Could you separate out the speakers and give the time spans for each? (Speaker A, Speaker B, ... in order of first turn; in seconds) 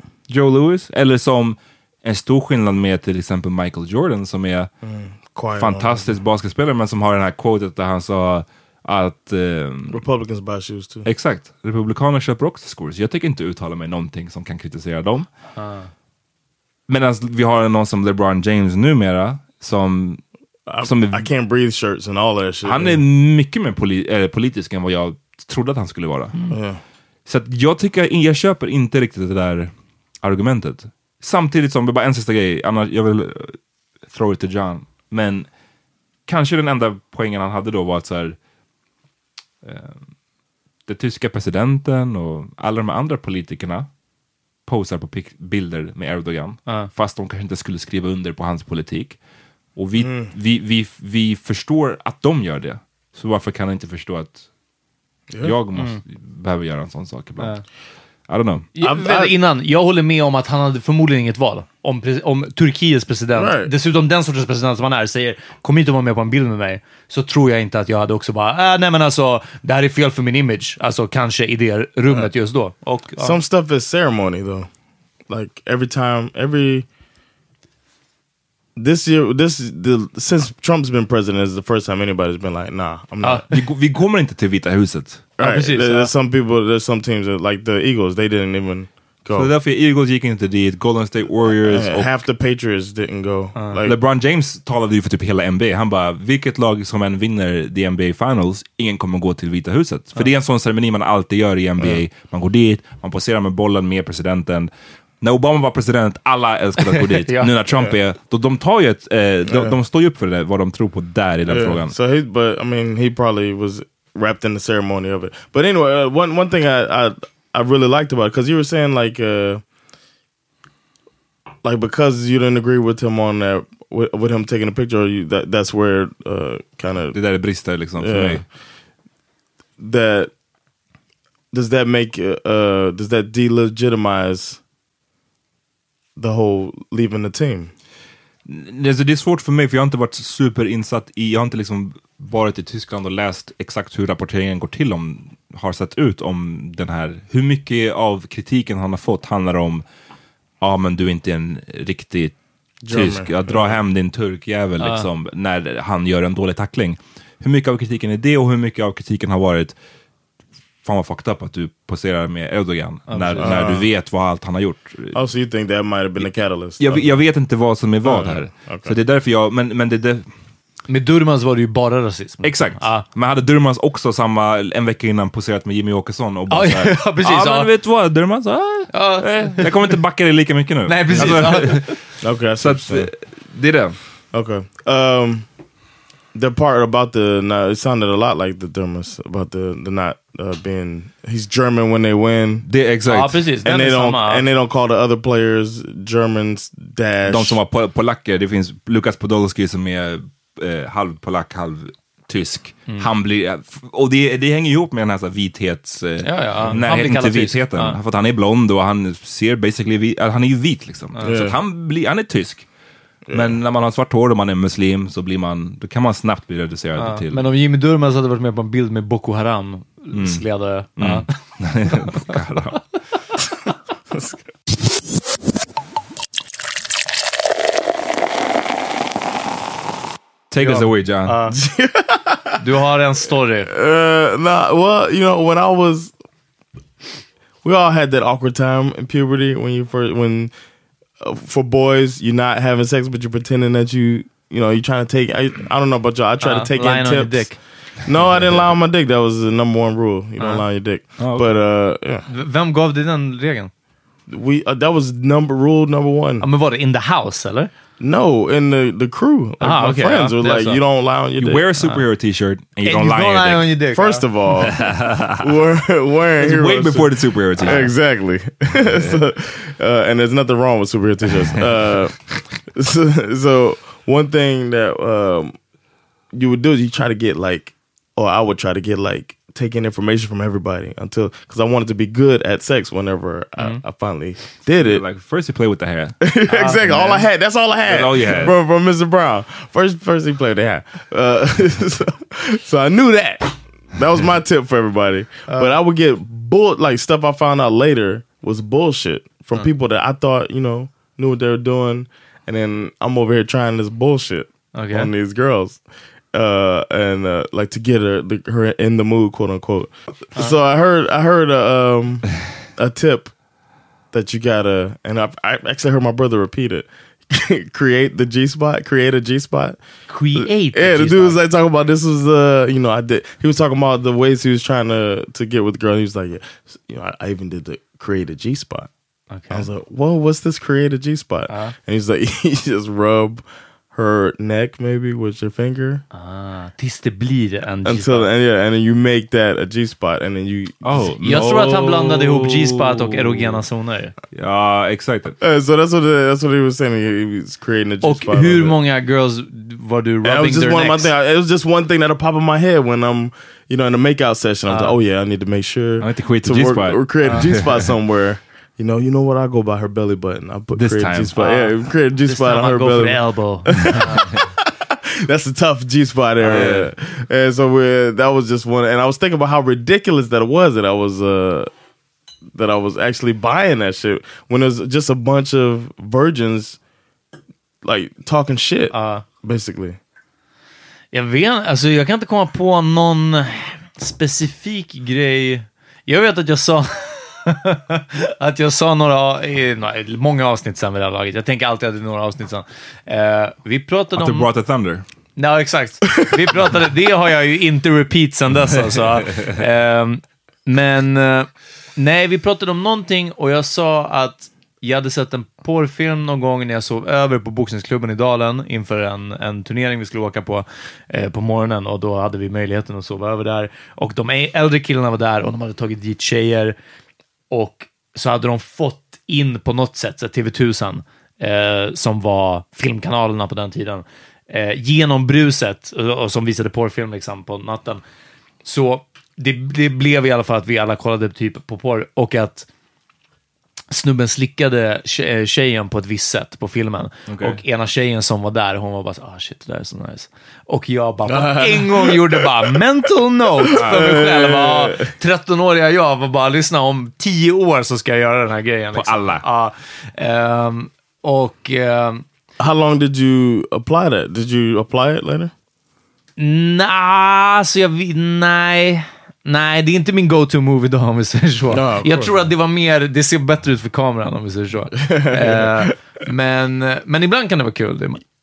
Speaker A: 0.3-4.7, 5.5-10.0, 11.1-15.3, 16.9-20.2, 20.8-21.3, 22.6-26.4, 27.3-29.7, 30.2-33.6, 34.1-35.5, 36.2-38.4, 39.6-40.1, 40.9-43.9, 44.6-49.2, 49.8-54.5, 55.4-57.5, 58.3-58.7, 83.5-85.2, 89.3-92.2, 93.8-111.9, 127.1-128.4, 138.4-149.8, 150.6-152.3, 152.9-159.7, 160.8-165.2, 166.2-170.3, 172.4-182.0, 182.6-184.0, 192.7-193.4, 197.3-212.7, 213.3-217.4, 220.1-222.9, 230.5-231.4, 248.3-248.6, 251.2-251.5, 261.4-263.7, 264.6-265.6, 266.4-267.9, 268.8-269.2, 284.8-286.2, 287.8-288.5, 340.8-343.1, 344.3-345.3, 356.0-357.9, 360.7-361.4, 366.4-366.9, 394.1-395.0, 437.3-437.6, 443.7-444.0, 448.9-449.4
Speaker B: 4.8-6.2, 9.9-11.1, 20.7-23.0, 26.5-26.8, 50.0-50.3, 55.3-55.5, 58.8-59.3, 63.3-63.7, 73.2-74.7, 75.3-76.9, 78.8-83.4, 85.4-89.5, 91.6-94.0, 109.5-109.7, 111.5-119.6, 121.6-127.2, 128.0-128.4, 129.8-130.3, 131.5-134.6, 136.2-137.7, 152.8-153.8, 163.4-163.9, 165.1-167.1, 168.0-168.9, 181.2-183.1, 184.3-185.5, 186.3-192.7, 193.6-197.6, 211.2-211.6, 213.3-213.6, 231.5-232.6, 233.7-236.1, 237.6-240.5, 241.2-252.2, 254.3-256.4, 258.0-261.6, 263.9-264.8, 265.4-275.6, 276.3-285.0, 286.2-305.8, 306.3-313.3, 314.1-319.8, 320.3-328.9, 329.5-336.0, 337.8-342.1, 345.4-348.8, 350.2-371.7, 372.5-376.8, 377.8-380.0, 441.3-442.7, 443.6-445.1, 452.6-455.5, 461.7-462.3, 465.0-465.9
Speaker C: 15.6-15.9, 58.8-73.4, 85.4-86.1, 93.5-93.8, 106.9-107.5, 154.8-155.1, 163.1-163.6, 170.9-173.0, 176.5-177.7, 178.9-179.9, 180.9-181.9, 193.1-194.4, 206.2-208.0, 217.0-221.3, 230.6-231.5, 232.6-233.7, 246.4-247.6, 252.3-253.7, 256.4-257.7, 259.6-260.8, 262.8-264.2, 286.5-287.1, 295.5-295.7, 304.7-305.1, 320.1-321.4, 329.3-329.7, 331.5-331.7, 336.1-338.3, 341.2-344.1, 348.0-351.1, 354.7-355.0, 357.2-357.5, 361.4-364.3, 378.9-379.2, 381.1-394.5, 395.4-416.8, 417.5-428.0, 428.6-432.7, 433.9-452.2, 456.4-468.2